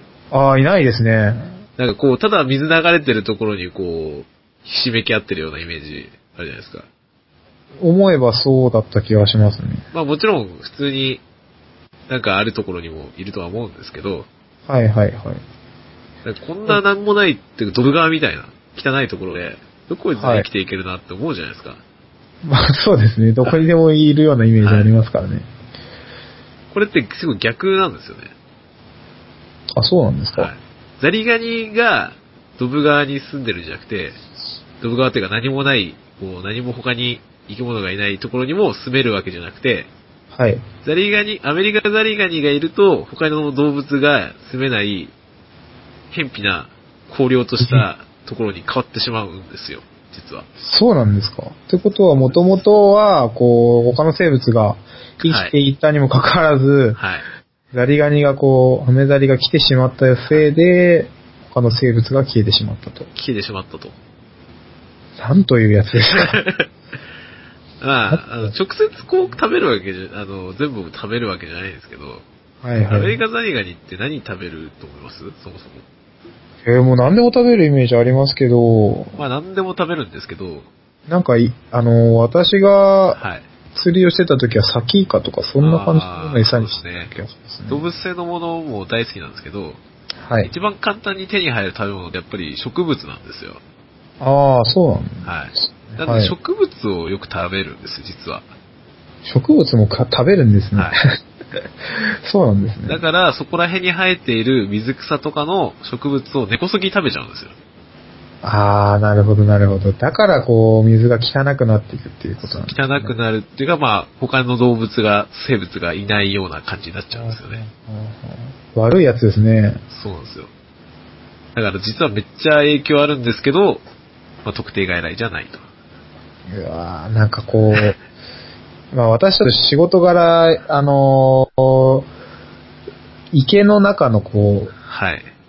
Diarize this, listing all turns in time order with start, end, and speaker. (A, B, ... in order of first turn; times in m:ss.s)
0:00.3-0:01.6 A
0:01.8-0:06.9 B
0:07.8-0:09.8 A
0:09.9-0:11.2 B
0:12.1-0:14.3 B
0:14.7-0:15.4 A
0:16.2-0:21.8 B
0:20.2-0:20.5 A
0:22.4-0:25.5 A
0:24.6-0:24.9 B
0:26.7-0:28.3 B
0:29.8-0:30.5 A
0:30.4-0:34.2 B
0:34.8-0:39.9 B
0:40.3-0:40.6 A
0:40.8-0:45.1 B
0:46.1-0:50.5 B
0:47.6-0:47.9 A
0:50.6-0:57.0 A
0:52.2-0:52.5 B
0:55.2-0:55.5 B
0:57.0-0:57.2 B
0:57.7-1:03.1 A
1:03.1-1:04.0 B
1:05.2-1:06.4 A
1:06.1-1:06.7 B
1:07.8-1:12.2 B
1:08.1-1:08.5 A
1:12.6-1:13.2 A
1:12.9-1:15.8 B
1:16.6-1:19.2 A
1:19.2-1:20.7 B
1:21.1-1:23.2 A
1:23.1-1:23.5 B
1:23.7-1:27.8 A
1:25.6-1:27.1 B
1:27.7-1:29.8 B
1:30.2-1:30.5 A
1:30.4-1:33.6 B
1:34.2-1:36.4 A
1:35.2-1:38.4 B
1:39.2-1:41.1 A
1:40.8-1:41.0 B
1:41.9-1:43.0 A
1:42.9-1:47.5 B
1:48.4-1:53.1 A
1:52.4-1:57.6 B
1:57.1-1:59.8 A
1:59.9-2:00.5 B
2:01.5-2:03.8 B
2:04.4-2:05.6 B
2:06.5-2:08.0 A
2:08.9-2:12.1 A
2:13.3-2:14.7 A
2:14.8-2:15.3 B